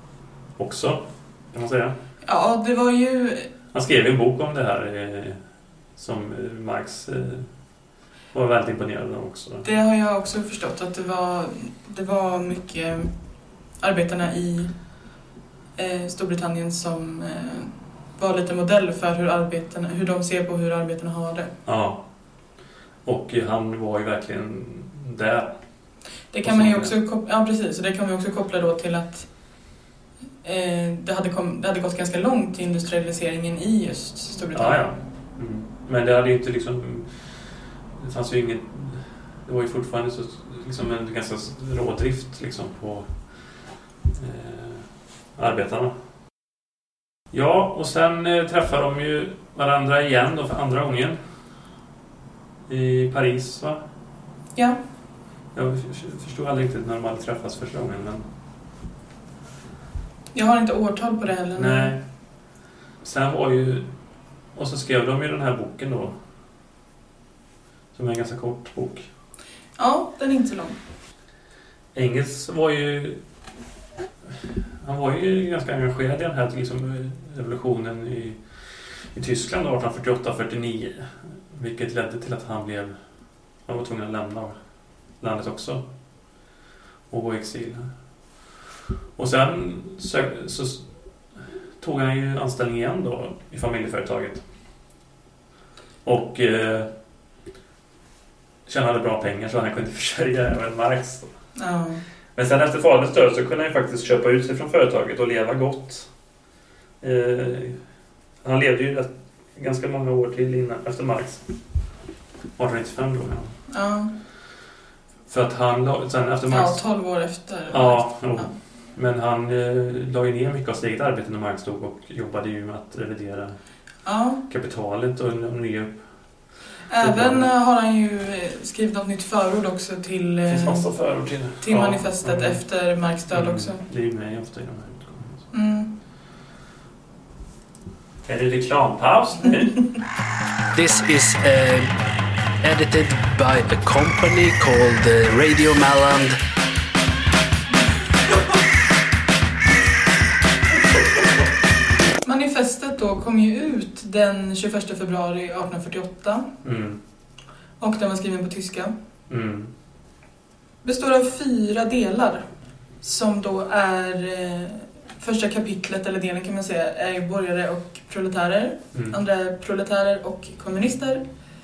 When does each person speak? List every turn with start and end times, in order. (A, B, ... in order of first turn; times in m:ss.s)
0:00.6-0:01.9 A
0:02.2-0:03.5 B
0:03.7-0:05.4 A
0:06.0-0:07.5 A
0:08.3-0:09.6 A
0:09.6-0:13.1 B
0:13.8-0:14.7 B
0:15.8-0:21.5 B
0:21.6-0:22.0 A
0:23.0-0:25.6 A
0:26.3-0:29.3 B
0:26.4-0:26.9 A
0:30.4-0:34.8 B
0:34.5-0:37.3 A
0:37.9-0:43.1 A
0:44.1-0:45.9 A
0:47.3-0:51.2 A
0:52.7-0:53.8 A
0:55.5-0:58.2 A
1:00.3-1:01.9 B
1:01.6-1:02.0 A
1:03.0-1:03.9 A
1:04.5-1:06.2 A
1:07.9-1:09.0 A
1:09.8-1:10.8 B
1:11.9-1:13.2 A
1:14.8-1:23.0 A
1:23.6-1:24.6 A
1:25.2-1:25.8 A
1:27.1-1:27.9 A
1:29.2-1:30.8 A
1:31.8-1:34.4 A
1:36.0-1:36.9 A
1:38.7-1:41.3 A
1:41.6-1:42.0 B
1:42.3-1:46.1 A
1:47.0-1:47.8 A
1:48.4-1:51.4 A
1:52.6-1:53.5 A
1:53.7-1:54.1 B
1:55.3-1:56.8 A
1:56.5-1:58.5 B
1:57.7-2:03.6 A
2:04.0-2:04.4 B
2:04.5-2:06.0 A
2:06.9-2:10.9 B
2:07.0-2:07.5 A
2:10.5-2:12.6 A
2:11.6-2:13.8 B
2:13.3-2:15.4 A
2:15.5-2:15.9 B
2:18.2-2:19.9 A
2:20.7-2:22.0 C
2:22.6-2:26.4 C
2:32.2-2:36.5 B
2:36.6-2:37.0 A
2:37.8-2:38.9 B
2:39.3-2:39.7 A
2:40.8-2:42.4 B
2:43.0-2:51.2 B